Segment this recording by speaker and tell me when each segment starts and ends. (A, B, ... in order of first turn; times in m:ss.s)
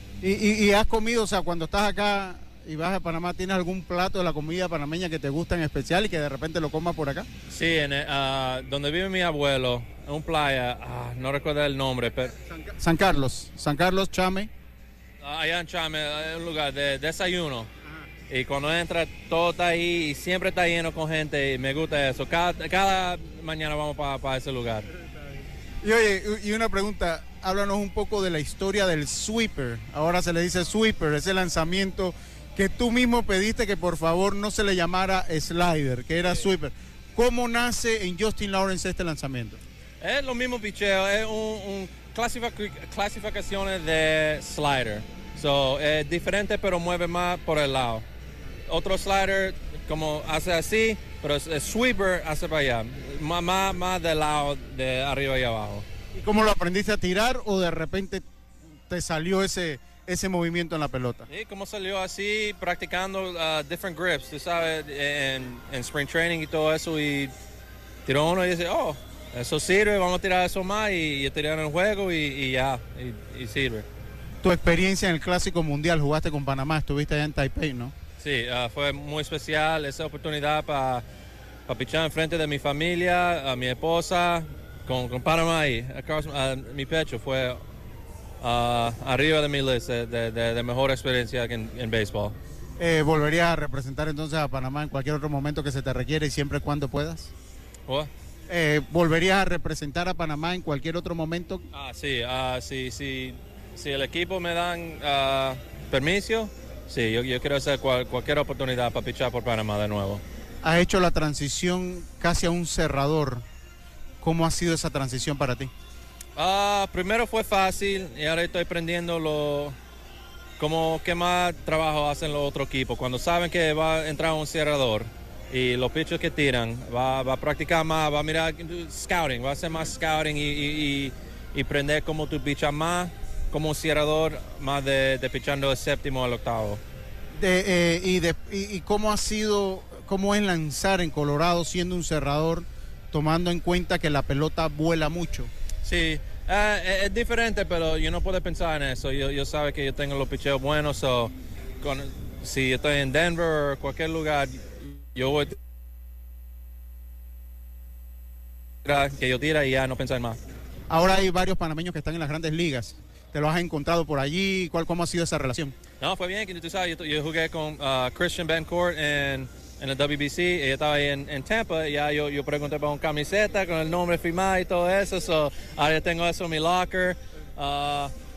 0:00.2-0:07.3 A
0:07.5-0:12.3 B
0:12.5-0:14.5 A
0:15.2-0:17.7 B
0:18.3-0:24.9 B
0:25.8-0:39.6 A
0:40.0-0:48.0 B
0:48.7-0:55.9 B
0:56.1-0:58.2 A
0:58.9-1:01.3 A
1:01.3-1:07.3 B
1:08.1-1:13.9 B
1:14.4-1:17.9 A
1:18.2-1:21.0 B
1:21.7-1:27.6 B
1:28.4-1:32.4 B
1:32.8-1:37.3 A
1:38.5-1:41.6 A
1:41.7-1:50.2 B
1:50.6-1:53.4 A
1:54.2-1:55.7 A
1:56.4-1:59.8 B
2:00.6-2:16.8 B
2:17.4-2:25.5 A
2:25.8-2:35.5 B
2:38.8-2:40.4 B
2:40.9-2:45.8 A
2:46.0-2:58.1 B